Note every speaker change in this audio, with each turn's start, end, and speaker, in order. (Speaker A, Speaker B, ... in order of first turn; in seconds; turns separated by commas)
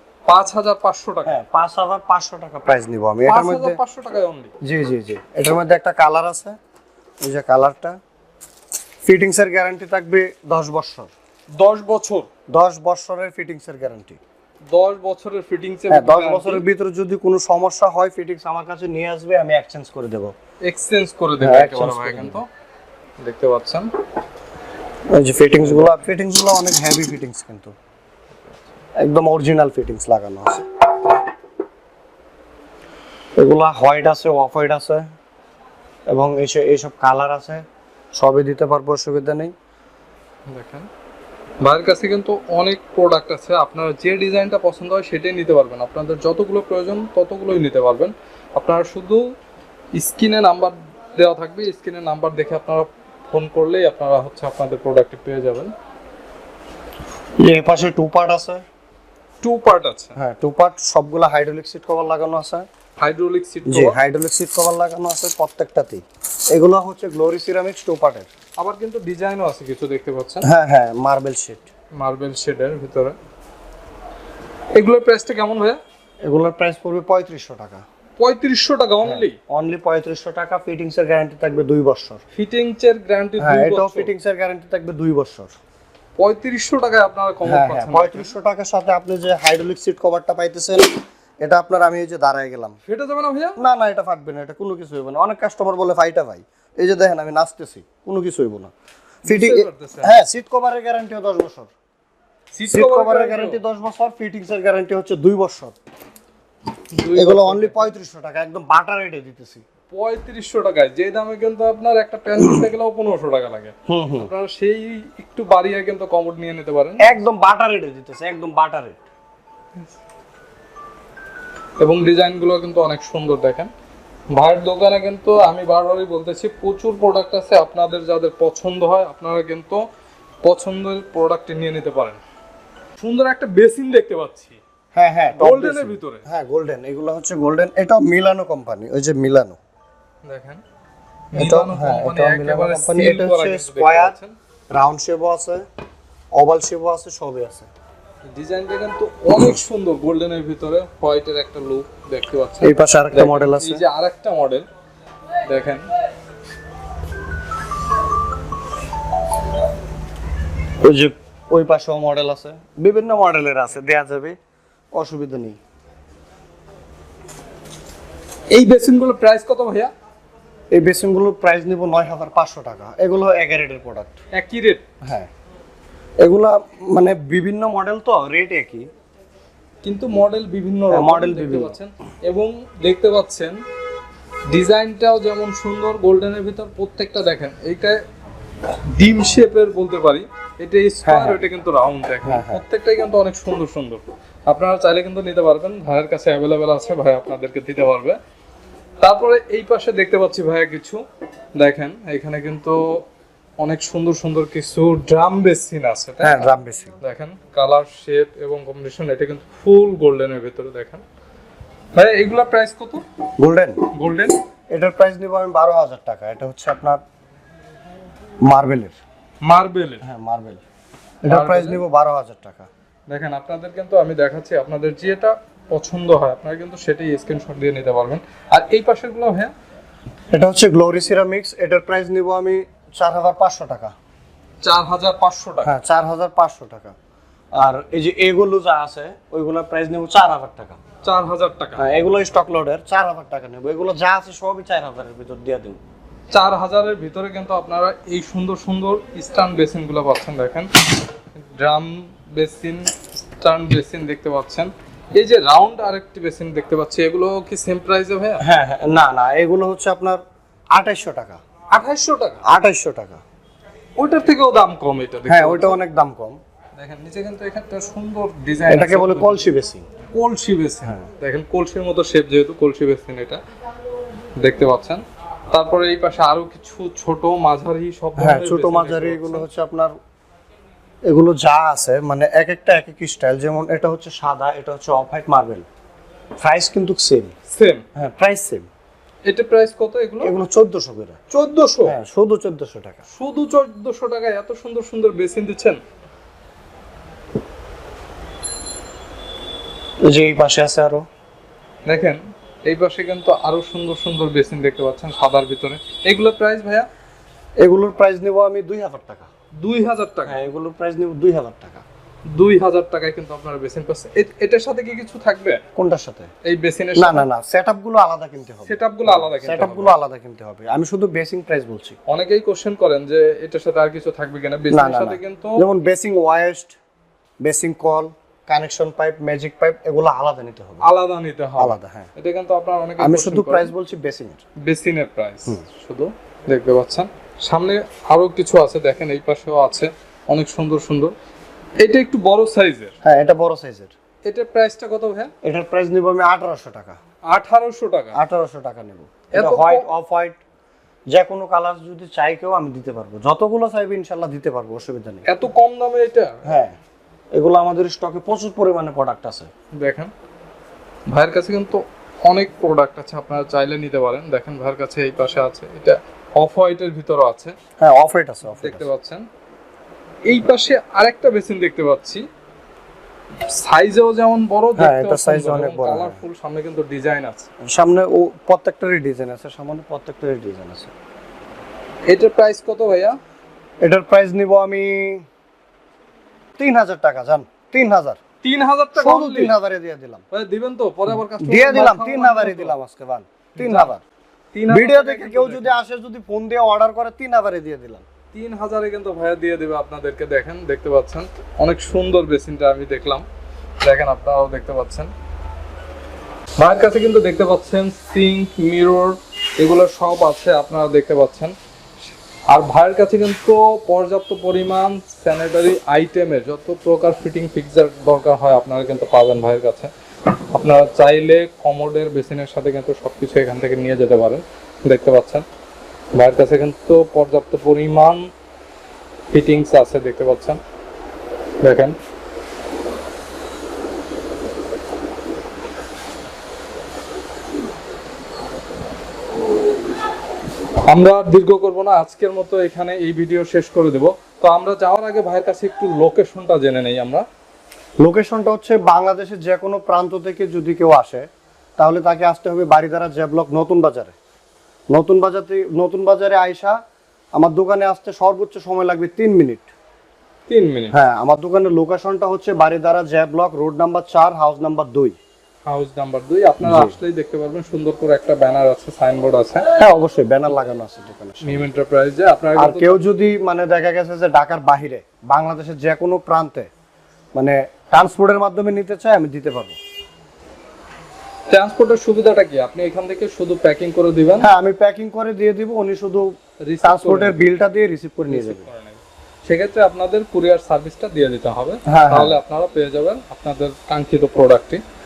Speaker A: 0.3-1.4, Speaker B: 1.2-3.8, Speaker A: 3.3-4.5, Speaker B: 4.6-6.6, Speaker B: 7.2-8.0, Speaker B: 9.0-11.1, Speaker A: 11.5-12.3, Speaker B: 12.5-14.2, Speaker A: 14.7-16.6, Speaker B: 15.9-20.3, Speaker A: 20.6-22.5, Speaker B: 21.4-22.4, Speaker A: 23.2-23.9, Speaker B: 25.1-27.8, Speaker A: 25.6-26.1, Speaker B: 29.0-30.7, Speaker B: 33.4-35.1, Speaker B: 36.1-39.5, Speaker A: 40.5-40.9, Speaker A: 41.6-49.2, Speaker A: 50.0-55.7, Speaker B: 57.4-58.6, Speaker A: 59.4-60.2, Speaker B: 60.2-62.7, Speaker A: 63.0-64.0, Speaker B: 63.7-68.3, Speaker A: 68.6-70.5, Speaker B: 70.4-71.7, Speaker A: 72.0-73.2, Speaker A: 74.7-75.8, Speaker B: 76.2-77.8, Speaker A: 78.2-79.4, Speaker B: 79.0-82.2, Speaker A: 82.3-84.1, Speaker B: 83.4-85.6, Speaker A: 86.2-88.3, Speaker B: 87.5-90.9, Speaker B: 91.4-92.8, Speaker A: 92.9-93.6, Speaker B: 93.6-98.7, Speaker A: 99.2-100.2, Speaker B: 99.2-101.7, Speaker A: 102.5-103.6, Speaker B: 102.7-105.8, Speaker A: 106.9-107.9, Speaker B: 107.2-109.7, Speaker A: 109.9-117.2, Speaker B: 113.9-114.3, Speaker B: 117.0-119.0, Speaker A: 121.8-123.7, Speaker A: 124.3-129.8, Speaker A: 130.4-132.2, Speaker A: 133.0-134.6, Speaker B: 134.9-139.6, Speaker A: 135.3-136.2, Speaker A: 140.2-140.6, Speaker A: 141.3-144.4, Speaker B: 141.4-144.2, Speaker B: 144.7-145.6, Speaker B: 146.3-147.7, Speaker A: 148.3-154.7, Speaker B: 152.6-153.8, Speaker A: 155.4-155.9, Speaker B: 160.8-164.4, Speaker B: 164.9-165.6, Speaker A: 168.5-169.9, Speaker B: 170.7-174.2, Speaker A: 174.3-174.8, Speaker B: 175.0-175.3, Speaker B: 176.2-178.9, Speaker A: 179.8-183.6, Speaker B: 180.9-181.8, Speaker A: 184.5-188.0, Speaker A: 188.7-198.2, Speaker B: 191.1-191.4, Speaker B: 192.2-192.6, Speaker A: 199.0-201.0, Speaker A: 201.6-203.1, Speaker A: 203.6-211.0, Speaker B: 206.2-206.9, Speaker A: 211.9-213.0, Speaker B: 213.4-213.8, Speaker A: 213.9-214.4, Speaker B: 214.7-217.0, Speaker B: 218.4-219.0, Speaker A: 219.4-220.0, Speaker B: 220.0-220.6, Speaker B: 221.2-222.7, Speaker A: 221.3-221.8, Speaker A: 223.1-229.5, Speaker B: 230.3-233.9, Speaker A: 234.6-235.7, Speaker B: 235.6-236.9, Speaker B: 237.6-240.8, Speaker A: 241.0-241.8, Speaker B: 241.8-245.8, Speaker A: 246.3-250.7, Speaker A: 251.3-258.4, Speaker B: 258.4-260.2, Speaker B: 260.7-261.4, Speaker A: 261.7-262.4, Speaker B: 262.5-263.2, Speaker A: 264.0-265.8, Speaker B: 265.3-266.4, Speaker A: 266.8-269.5, Speaker B: 268.7-269.9, Speaker A: 270.1-273.4, Speaker A: 274.4-279.5, Speaker B: 278.2-279.9, Speaker B: 281.1-285.7, Speaker B: 286.4-287.3, Speaker A: 287.5-287.9, Speaker B: 288.0-288.7, Speaker A: 289.3-290.3, Speaker B: 290.2-291.2, Speaker A: 291.3-291.9, Speaker B: 291.9-293.1, Speaker A: 293.1-295.8, Speaker B: 300.1-301.1, Speaker A: 301.9-306.9, Speaker B: 307.6-309.3, Speaker A: 309.6-310.4, Speaker B: 310.3-311.8, Speaker A: 312.3-315.6, Speaker B: 315.8-316.3, Speaker A: 316.4-317.3, Speaker B: 317.0-322.0, Speaker A: 318.7-320.0, Speaker A: 322.1-325.7, Speaker B: 324.7-326.8, Speaker B: 327.4-330.9, Speaker A: 330.8-333.7, Speaker B: 331.6-332.1, Speaker B: 333.0-334.4, Speaker A: 334.6-341.1, Speaker A: 341.8-342.9, Speaker B: 343.0-343.9, Speaker A: 344.3-345.3, Speaker B: 345.4-347.0, Speaker A: 347.3-348.2, Speaker B: 348.1-350.4, Speaker A: 349.3-349.9, Speaker B: 351.1-355.3, Speaker A: 355.3-356.5, Speaker B: 356.4-356.8, Speaker B: 357.4-359.5, Speaker A: 359.8-360.1, Speaker A: 361.1-367.6, Speaker B: 367.8-368.9, Speaker A: 368.5-369.3, Speaker A: 370.3-372.2, Speaker A: 373.5-377.5, Speaker B: 374.8-376.2, Speaker B: 377.7-380.9, Speaker A: 382.1-383.2, Speaker B: 383.8-385.2, Speaker B: 386.6-388.2, Speaker A: 388.4-389.6, Speaker B: 388.9-390.2, Speaker A: 390.3-392.8, Speaker B: 391.1-394.0, Speaker A: 393.6-393.9, Speaker A: 394.5-395.8, Speaker B: 394.7-398.1, Speaker A: 398.3-403.2, Speaker A: 403.8-405.1, Speaker A: 406.6-411.6, Speaker A: 412.5-419.9, Speaker A: 420.5-425.4, Speaker A: 426.1-428.3, Speaker A: 429.3-430.6, Speaker A: 431.6-432.0, Speaker A: 440.9-447.3, Speaker B: 448.0-451.3, Speaker B: 451.8-454.1, Speaker B: 454.9-456.8, Speaker B: 457.4-459.7, Speaker A: 460.5-461.0, Speaker B: 460.9-465.2, Speaker A: 465.7-469.7, Speaker B: 466.6-467.0, Speaker B: 469.8-471.7, Speaker A: 471.4-473.0, Speaker B: 472.6-476.7, Speaker B: 477.4-479.8, Speaker A: 481.5-484.5, Speaker B: 484.4-486.3, Speaker A: 486.6-487.5, Speaker B: 486.8-488.7, Speaker A: 488.3-494.8, Speaker B: 491.9-492.4